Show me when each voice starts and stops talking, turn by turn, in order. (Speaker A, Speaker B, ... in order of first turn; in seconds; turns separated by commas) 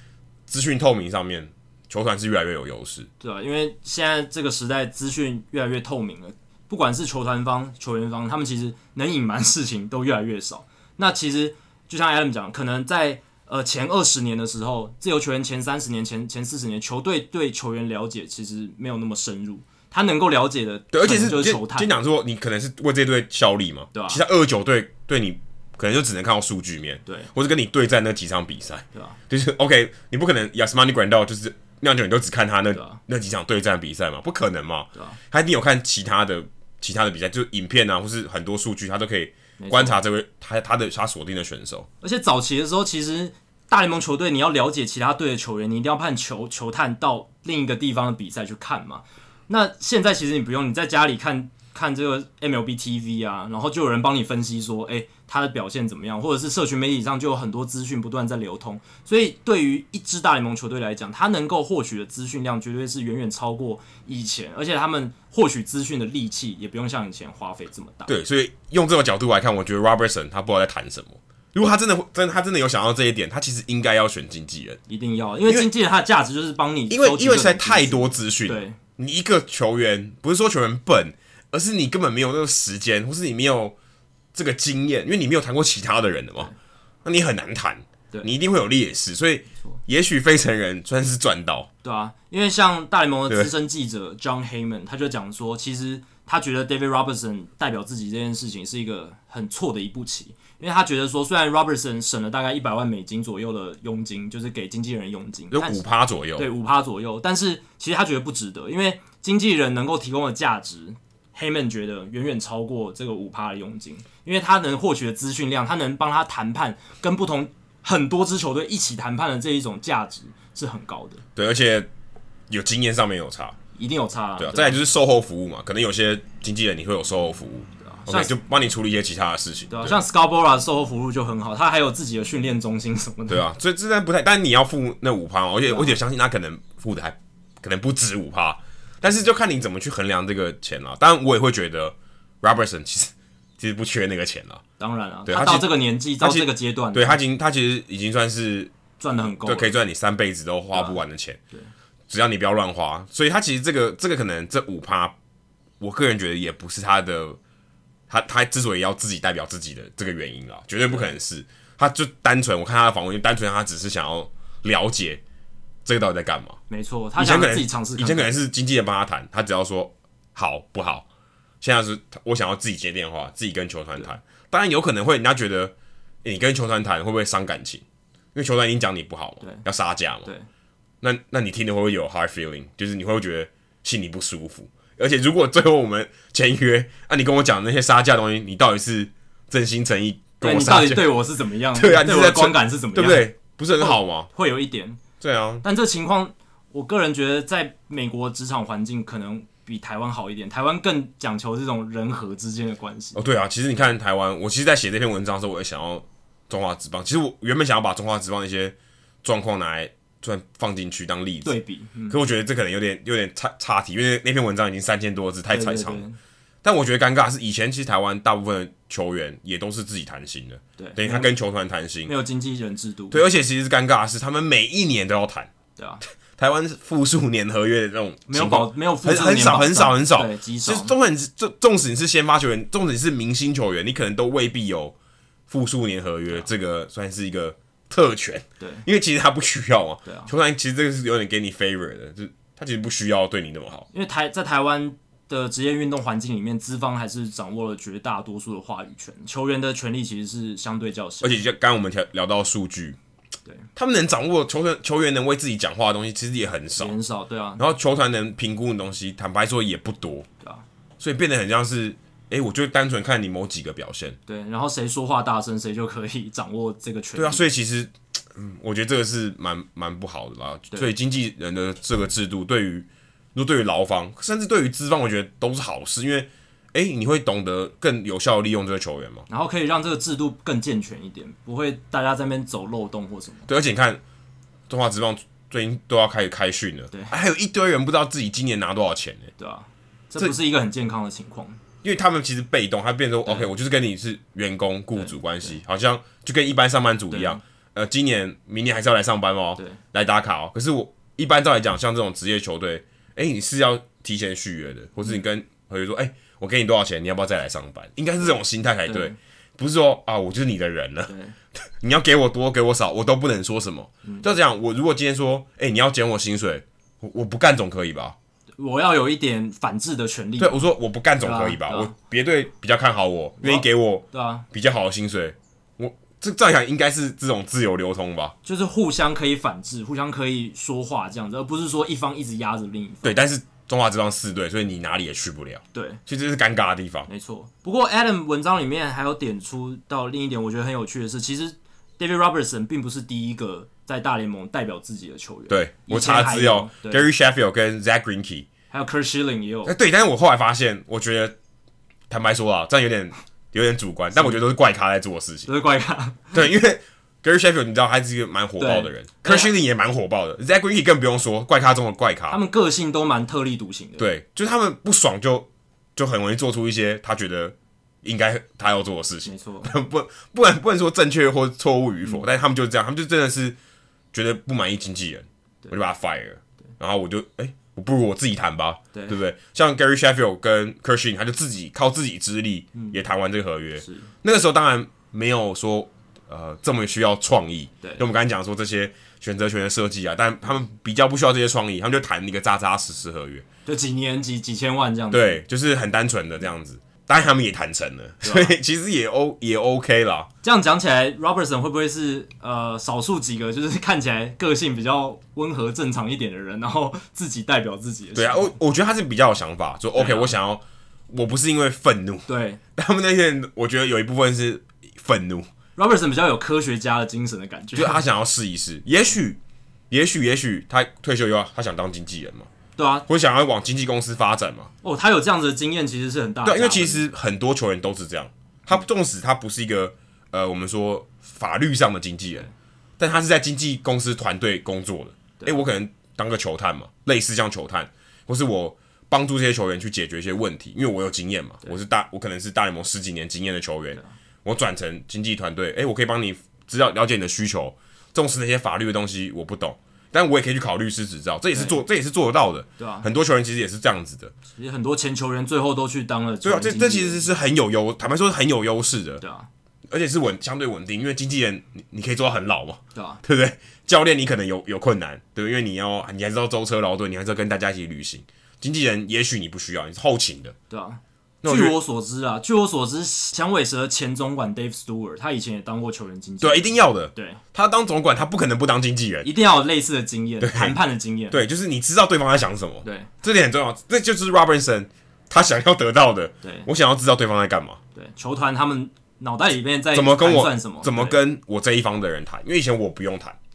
Speaker A: 0.5-3.1, Speaker B: 3.2-21.9, Speaker A: 20.9-41.9, Speaker B: 23.9-24.2, Speaker B: 32.7-33.0, Speaker B: 39.6-40.0, Speaker B: 42.0-68.1, Speaker A: 68.1-74.8, Speaker B: 74.9-78.8, Speaker A: 76.9-83.7, Speaker A: 84.3-86.5, Speaker A: 87.0-91.7, Speaker B: 91.8-105.8, Speaker A: 105.5-106.5, Speaker B: 106.4-121.2, Speaker A: 121.3-121.9, Speaker A: 122.5-123.6, Speaker B: 123.8-124.8, Speaker A: 124.4-130.0, Speaker B: 127.8-128.3, Speaker B: 129.7-133.4, Speaker A: 133.3-144.6, Speaker B: 135.7-136.0, Speaker B: 144.8-147.2, Speaker A: 145.2-148.7, Speaker B: 149.0-149.8, Speaker A: 149.4-151.4, Speaker A: 152.1-155.1, Speaker A: 155.8-157.4, Speaker A: 158.1-165.2, Speaker B: 160.9-161.1, Speaker A: 165.8-166.6, Speaker B: 166.7-168.3, Speaker A: 167.2-171.1, Speaker A: 171.6-177.8, Speaker A: 178.3-180.3, Speaker A: 181.0-191.2, Speaker B: 190.4-195.0, Speaker A: 191.7-194.3, Speaker A: 195.2-195.6, Speaker B: 195.6-203.2, Speaker A: 203.1-211.5, Speaker B: 211.4-212.2, Speaker A: 212.1-216.0, Speaker B: 215.5-216.2, Speaker A: 216.6-222.1, Speaker B: 220.8-221.3, Speaker B: 222.1-223.2, Speaker A: 223.1-225.5, Speaker B: 225.8-226.0, Speaker A: 226.4-234.9, Speaker B: 228.3-230.9, Speaker A: 235.5-243.9, Speaker B: 238.6-238.8, Speaker B: 240.0-240.3, Speaker B: 243.9-251.4, Speaker A: 251.2-253.0, Speaker A: 253.8-256.9, Speaker B: 256.8-257.6, Speaker A: 257.6-260.3, Speaker A: 261.0-264.2, Speaker B: 264.3-267.5, Speaker A: 267.1-279.2, Speaker B: 279.3-283.5, Speaker A: 283.5-284.0, Speaker A: 284.7-289.3, Speaker B: 289.4-291.6, Speaker A: 291.8-318.1, Speaker B: 294.9-295.6, Speaker B: 297.1-297.4, Speaker B: 308.9-309.1, Speaker B: 311.1-311.4, Speaker B: 318.6-321.9, Speaker A: 320.4-328.4, Speaker B: 323.4-324.4, Speaker B: 328.4-333.2, Speaker A: 333.0-337.1, Speaker B: 335.7-336.0, Speaker B: 337.1-347.1, Speaker A: 345.5-348.5, Speaker B: 348.7-349.7, Speaker A: 349.6-351.4, Speaker A: 352.1-355.5, Speaker B: 355.5-356.4, Speaker A: 356.3-362.4, Speaker B: 358.6-359.5, Speaker B: 362.3-364.1, Speaker A: 364.0-373.6, Speaker B: 369.2-369.7, Speaker A: 374.1-393.4, Speaker B: 383.8-384.1, Speaker B: 393.6-395.4, Speaker A: 395.1-400.3, Speaker B: 398.2-398.5, Speaker B: 400.4-408.6, Speaker A: 408.1-415.5, Speaker B: 409.9-410.3, Speaker B: 412.3-412.6, Speaker B: 415.8-418.0, Speaker A: 417.8-419.4, Speaker A: 419.9-422.5, Speaker B: 422.8-423.0, Speaker A: 423.1-424.7, Speaker B: 424.8-427.0, Speaker A: 426.4-454.3, Speaker B: 451.5-451.8, Speaker B: 452.8-453.1, Speaker B: 454.6-457.3, Speaker A: 456.4-459.2, Speaker B: 459.2-459.5, Speaker A: 459.9-470.5, Speaker B: 462.9-463.2, Speaker B: 470.7-477.4, Speaker A: 471.4-471.8, Speaker A: 476.4-479.3, Speaker B: 479.2-481.4, Speaker A: 480.4-480.8, Speaker A: 481.3-487.8, Speaker B: 482.8-483.1, Speaker B: 487.9-491.2, Speaker A: 489.9-493.4